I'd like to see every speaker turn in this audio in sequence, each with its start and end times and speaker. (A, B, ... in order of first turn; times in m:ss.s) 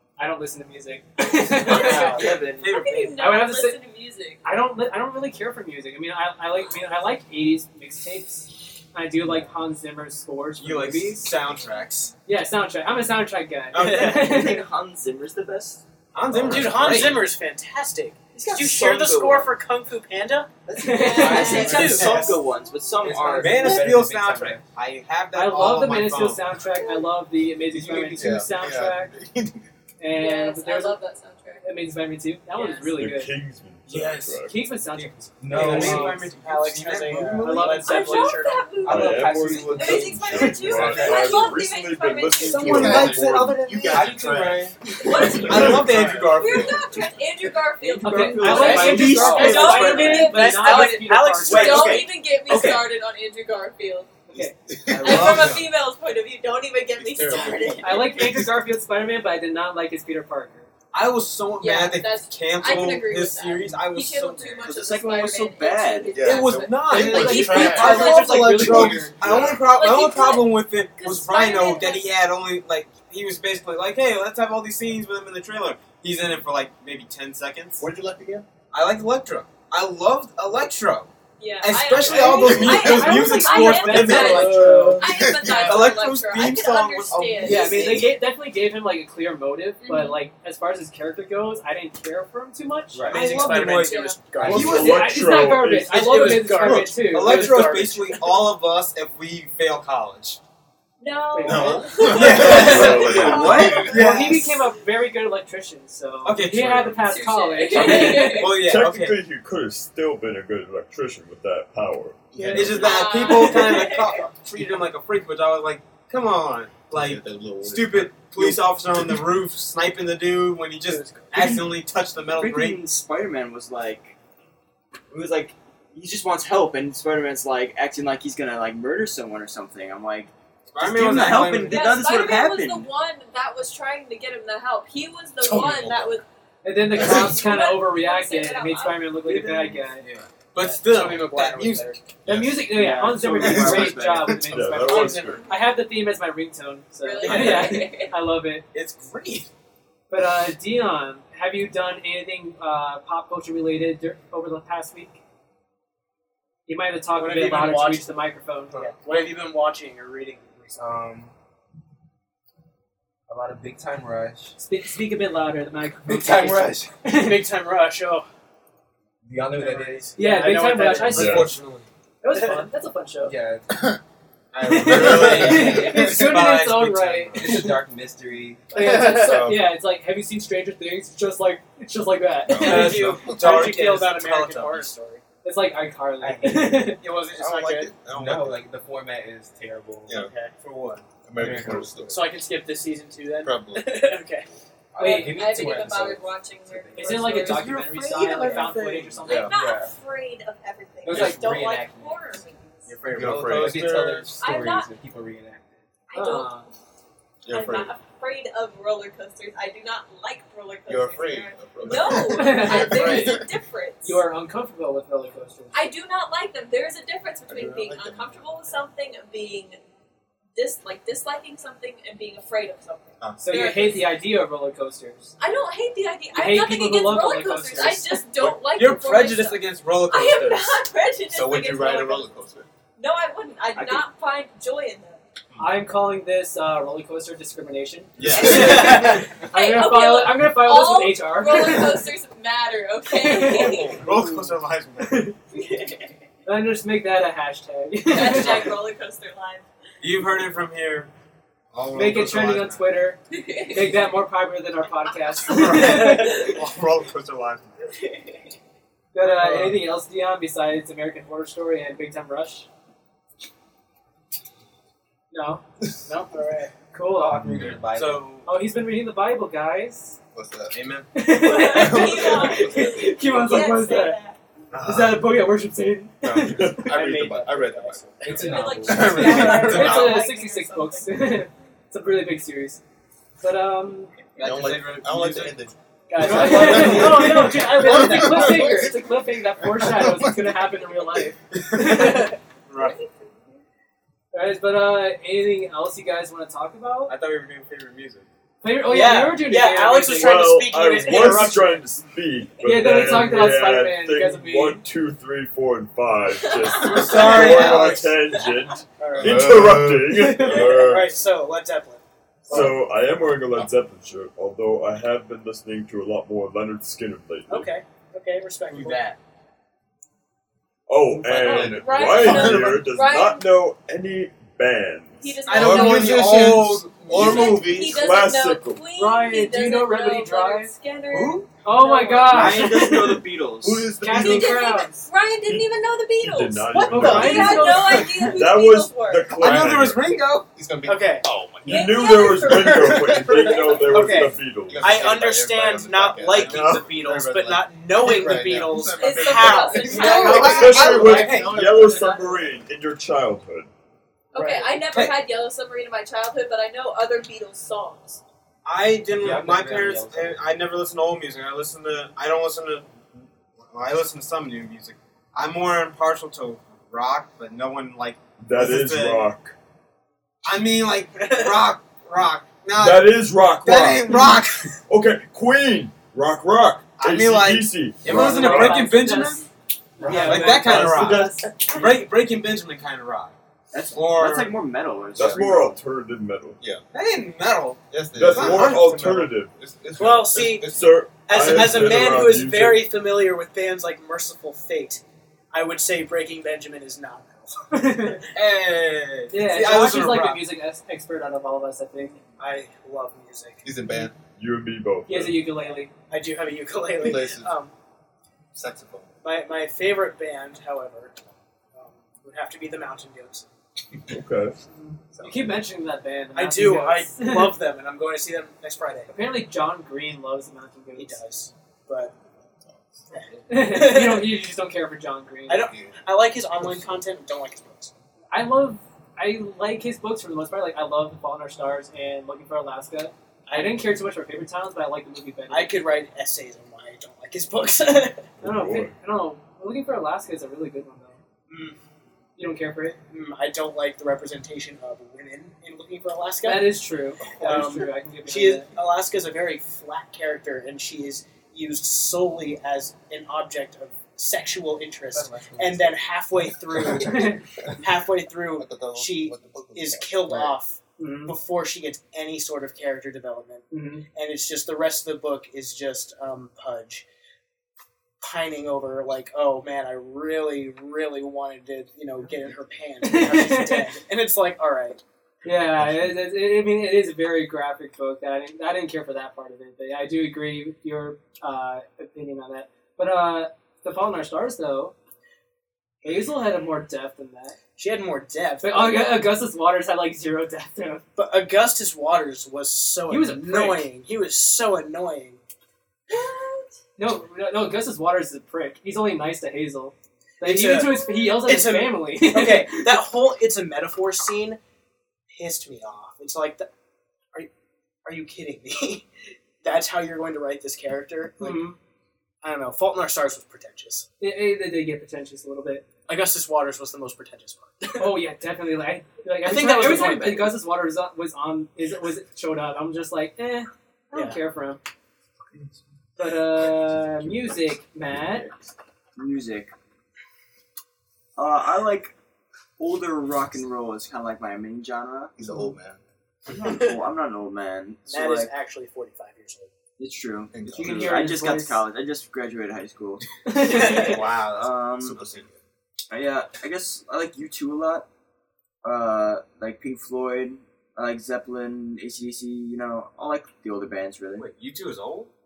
0:00.2-0:02.3 A
0:01.6-0:02.8 B
0:01.7-0:02.4 C
0:01.8-0:04.4 D
0:01.9-0:03.2 E
0:03.2-0:03.8 A
0:04.4-0:11.2 A
0:10.6-0:12.1 E
0:12.2-0:14.7 A
0:13.7-0:14.1 E
0:13.8-0:14.1 C
0:13.8-0:15.8 B
0:16.1-0:17.3 E
0:16.3-0:20.6 C
0:18.3-0:19.6 B
0:20.8-0:21.8 A
0:20.8-0:22.0 D
0:20.9-0:22.4 F
0:21.0-0:23.9 B
0:21.4-0:22.3 C
0:21.8-0:22.3 E
0:23.0-0:24.6 F
0:23.2-0:26.6 E
0:25.3-0:29.1 A
0:27.7-0:29.6 G
0:30.0-0:31.0 A
0:30.1-0:31.6 D
0:31.6-0:33.4 A
0:32.5-0:33.0 D
0:33.0-0:34.5 H
0:33.9-0:38.2 E
0:34.5-0:36.3 A
0:35.4-0:36.2 F
0:35.5-0:38.7 C
0:37.4-0:38.4 A
0:37.6-0:42.9 D
0:38.8-0:41.5 F
0:38.8-0:43.7 H
0:42.4-0:47.0 G
0:42.4-0:44.6 E
0:42.8-0:46.2 F
0:45.0-0:54.2 D
0:45.3-0:47.1 E
0:45.4-0:45.8 H
0:47.8-0:50.5 B
0:48.0-0:51.7 A
0:48.4-0:52.0 C
0:49.0-0:49.6 F
0:51.4-0:52.8 B
0:54.3-0:54.5 A
0:54.3-0:55.5 G
0:54.9-0:55.7 E
0:55.0-0:58.3 D
0:56.9-0:58.5 G
0:57.8-1:00.7 A
1:00.9-1:04.7 E
1:01.6-1:08.4 D
1:04.6-1:06.2 B
1:06.1-1:09.8 G
1:06.2-1:17.8 E
1:06.9-1:09.1 A
1:09.7-1:12.1 D
1:17.8-1:18.4 G
1:18.7-1:27.9 E
1:21.4-1:28.0 D
1:22.0-1:25.1 A
1:22.2-1:23.2 G
1:24.6-1:26.0 G
1:27.4-1:33.1 A
1:27.4-1:28.1 C
1:27.8-1:28.1 G
1:29.8-1:30.2 D
1:32.9-1:33.2 F
1:33.1-1:38.4 C
1:33.1-1:35.1 E
1:33.4-1:34.2 D
1:34.4-1:36.2 H
1:34.5-1:37.7 A
1:36.2-1:40.4 E
1:41.0-1:43.8 D
1:41.3-1:48.5 A
1:41.4-1:44.4 G
1:42.0-1:44.6 E
1:42.5-1:43.5 H
1:42.8-1:44.0 B
1:46.2-1:47.0 E
1:47.0-1:48.6 D
1:47.7-1:49.2 E
1:47.8-1:52.8 H
1:52.3-1:53.2 G
1:52.5-2:02.8 E
1:52.7-1:54.2 D
1:56.9-1:59.2 G
2:00.9-2:01.2 C
2:01.3-2:01.8 B
2:02.3-2:04.1 B
2:05.1-2:12.9 B
2:10.7-2:12.0 E
2:11.6-2:16.2 D
2:15.4-2:16.2 G
2:16.6-2:20.0 A
2:16.9-2:19.1 D
2:19.4-2:22.0 E
2:20.6-2:22.0 C
2:22.2-2:28.6 A
2:22.7-2:24.0 F
2:22.8-2:24.6 B
2:23.5-2:24.5 G
2:24.5-2:25.4 H
2:24.8-2:25.3 C
2:27.0-2:28.1 D
2:27.2-2:27.8 E
2:28.7-2:29.5 E
2:30.1-2:35.2 A
2:36.7-2:38.8 A
2:37.2-2:38.1 C
2:38.7-2:41.0 C
2:40.8-2:41.3 F
2:43.3-2:44.6 F
2:44.6-2:47.4 A
2:46.0-2:46.9 F
2:47.1-2:48.2 C
2:49.2-2:50.1 F
2:49.5-2:51.5 C
2:50.2-2:51.5 A
2:51.0-2:51.9 E
2:51.0-2:51.5 H
2:52.2-2:53.3 A
2:53.2-2:54.0 F
2:54.5-2:57.8 E
2:54.7-2:57.8 A
2:54.9-2:56.4 F
2:54.9-2:55.7 G
2:57.3-2:59.2 F
2:58.7-3:03.0 A
2:58.7-2:59.5 C
2:59.2-2:59.6 G
3:02.4-3:03.6 G
3:02.6-3:04.9 E
3:02.6-3:05.2 C
3:05.4-3:07.0 A
3:06.2-3:07.0 F
3:07.0-3:07.9 C
3:07.2-3:08.6 G
3:08.0-3:10.3 F
3:10.0-3:10.3 G
3:10.2-3:10.5 C
3:10.5-3:11.0 E
3:11.2-3:12.3 G
3:11.3-3:12.1 F
3:12.1-3:14.5 C
3:13.4-3:14.0 G
3:14.9-3:17.5 F
3:15.0-3:17.8 D
3:15.0-3:15.3 A
3:17.0-3:19.5 A
3:17.4-3:19.2 E
3:19.2-3:23.0 D
3:19.3-3:20.0 F
3:21.0-3:21.5 A
3:21.0-3:22.4 F
3:22.8-3:24.4 E
3:23.1-3:24.2 G
3:23.1-3:25.9 F
3:24.4-3:24.9 D
3:26.1-3:26.7 D
3:26.1-3:26.7 A
3:27.4-3:28.0 G
3:27.5-3:34.2 D
3:30.9-3:33.5 G
3:32.2-3:33.4 A
3:32.9-3:33.4 E
3:34.0-3:35.7 A
3:35.7-3:39.8 D
3:37.5-3:38.9 G
3:40.6-3:44.0 D
3:43.2-3:43.6 G
3:43.4-3:45.3 A
3:45.4-3:52.3 D
3:46.3-3:48.2 A
3:47.8-3:48.6 G
3:48.5-3:50.8 E
3:51.2-3:52.7 G
3:53.0-3:55.2 D
3:55.6-4:02.0 A
3:58.2-3:58.9 G
3:58.2-3:59.2 E
3:58.3-4:04.0 D
4:03.1-4:04.2 A
4:03.4-4:05.3 E
4:05.0-4:05.3 A
4:05.5-4:06.1 D
4:06.4-4:08.7 A
4:08.0-4:09.6 D
4:08.3-4:08.7 E
4:10.0-4:11.1 E
4:11.7-4:12.8 E
4:11.9-4:13.2 A
4:13.3-4:14.0 D
4:13.7-4:16.5 A
4:15.5-4:17.8 E
4:15.8-4:16.6 D
4:18.0-4:18.4 D
4:19.1-4:22.7 A
4:19.4-4:19.8 E
4:25.3-4:25.6 A
4:26.0-4:26.7 C
4:26.9-4:27.5 A
4:27.1-4:28.3 F
4:27.4-4:27.8 H
4:27.6-4:28.5 E
4:28.4-4:30.2 A
4:30.3-4:30.8 G
4:30.7-4:31.1 E
4:31.1-4:34.2 A
4:31.4-4:34.4 D
4:34.7-4:35.2 E
4:34.8-4:36.9 A
4:36.2-4:40.0 G
4:36.8-4:38.7 C
4:38.2-4:39.4 F
4:38.4-4:41.4 D
4:39.0-4:42.8 A
4:39.2-4:40.1 E
4:43.4-4:44.1 A
4:44.4-4:45.6 E
4:44.4-4:51.3 G
4:46.1-4:48.9 C
4:46.2-4:52.3 A
4:46.5-4:47.0 E
4:52.7-4:53.0 E
4:52.7-4:53.4 D
4:54.3-4:57.1 A
4:57.1-4:58.3 E
4:58.6-5:00.4 A
4:58.8-5:01.8 C
5:00.1-5:11.1 H
5:02.6-5:04.8 A
5:06.8-5:08.1 E
5:07.0-5:08.1 C
5:09.0-5:12.8 C
5:09.1-5:11.0 G
5:12.5-5:17.7 H
5:17.5-5:19.0 C
5:18.7-5:19.2 E
5:20.9-5:25.5 H
5:21.2-5:22.9 G
5:21.4-5:23.4 D
5:25.2-5:32.9 D
5:25.4-5:27.7 E
5:25.5-5:28.2 G
5:27.7-5:28.8 H
5:29.0-5:30.7 A
5:31.1-5:31.5 E
5:31.6-5:33.2 A
5:32.3-5:33.9 B
5:32.3-5:32.6 E
5:33.6-5:34.6 G
5:34.0-5:35.0 A
5:34.0-5:39.4 D
5:35.4-5:40.1 H
5:36.7-5:38.4 A
5:39.4-5:40.4 E
5:39.4-5:39.9 G
5:40.5-5:52.2 G
5:40.8-5:41.3 C
5:41.6-5:45.0 H
5:41.7-5:43.7 D
5:43.0-5:51.5 C
5:46.4-5:46.9 H
5:49.0-5:50.9 D
5:49.9-5:51.8 E
5:50.1-5:53.7 H
5:54.3-5:58.2 D
5:54.3-5:54.8 C
5:54.9-5:55.2 E
5:58.6-6:09.3 E
5:59.1-6:00.5 F
6:08.4-6:09.6 H
6:10.4-6:14.8 E
6:11.2-6:11.6 C
6:12.7-6:18.9 H
6:17.0-6:19.4 E
6:18.0-6:19.5 A
6:20.0-6:20.6 A
6:20.0-6:21.4 C
6:20.1-6:23.3 E
6:20.1-6:21.5 H
6:21.6-6:21.9 D
6:23.7-6:25.8 B
6:23.9-6:24.5 E
6:25.2-6:25.7 G
6:25.2-6:26.6 H
6:26.9-6:29.1 E
6:27.9-6:32.2 G
6:28.2-6:29.5 H
6:30.0-6:30.7 C
6:30.6-6:32.9 H
6:31.2-6:38.2 C
6:37.7-6:38.2 A
6:38.3-6:40.4 E
6:39.3-6:42.2 A
6:42.4-6:44.0 C
6:43.6-6:44.2 G
6:44.3-6:45.4 H
6:45.1-6:45.9 A
6:46.1-6:47.7 C
6:46.9-6:47.6 G
6:48.5-6:49.1 G
6:49.2-6:51.2 C
6:51.7-6:53.5 C
6:54.1-6:54.6 H
6:54.7-6:57.6 A
6:56.3-6:59.1 C
6:59.1-7:01.2 A
7:01.0-7:02.1 C
7:03.1-7:04.3 C
7:03.5-7:05.7 A
7:05.5-7:07.9 C
7:05.6-7:06.0 G
7:08.3-7:15.8 A
7:13.5-7:13.8 C
7:15.5-7:18.3 C
7:18.4-7:18.9 H
7:18.4-7:21.2 A
7:21.5-7:21.8 C
7:22.4-7:23.0 A
7:23.1-7:26.8 C
7:26.4-7:28.7 A
7:27.4-7:47.0 C
7:35.1-7:36.0 F
7:37.0-7:37.2 G
7:37.0-7:37.4 A
7:38.6-7:40.6 G
7:41.0-7:41.3 A
7:43.7-7:44.0 A
7:48.2-7:55.0 C
7:53.0-7:53.9 A
7:55.4-8:04.9 A
8:06.0-8:07.6 A
8:07.8-8:09.2 C
8:08.6-8:11.0 A
8:11.1-8:15.4 C
8:13.1-8:13.8 A
8:16.1-8:16.7 D
8:17.0-8:22.9 A
8:20.4-8:24.6 C
8:25.3-8:26.7 C
8:28.0-8:29.1 C
8:29.6-8:31.7 C
8:31.4-8:31.8 A
8:32.4-8:34.1 C
8:34.2-8:35.8 A
8:36.1-8:38.1 C
8:38.0-8:44.8 A
8:39.4-8:40.5 C
8:44.1-8:44.4 C
8:46.2-8:48.5 A
8:48.3-8:48.5 G
8:49.2-8:49.7 B
8:51.4-8:52.1 B
8:52.8-8:55.3 B
8:55.4-8:56.0 G
8:56.4-8:58.5 B
8:56.6-8:56.9 C
8:58.1-8:59.7 C
9:00.0-9:05.3 B
9:00.5-9:01.3 G
9:00.7-9:01.8 A
9:03.4-9:04.2 A
9:03.6-9:04.2 C
9:03.9-9:04.5 E
9:04.2-9:05.6 G
9:06.1-9:08.1 B
9:08.8-9:14.5 B
9:14.4-9:15.3 E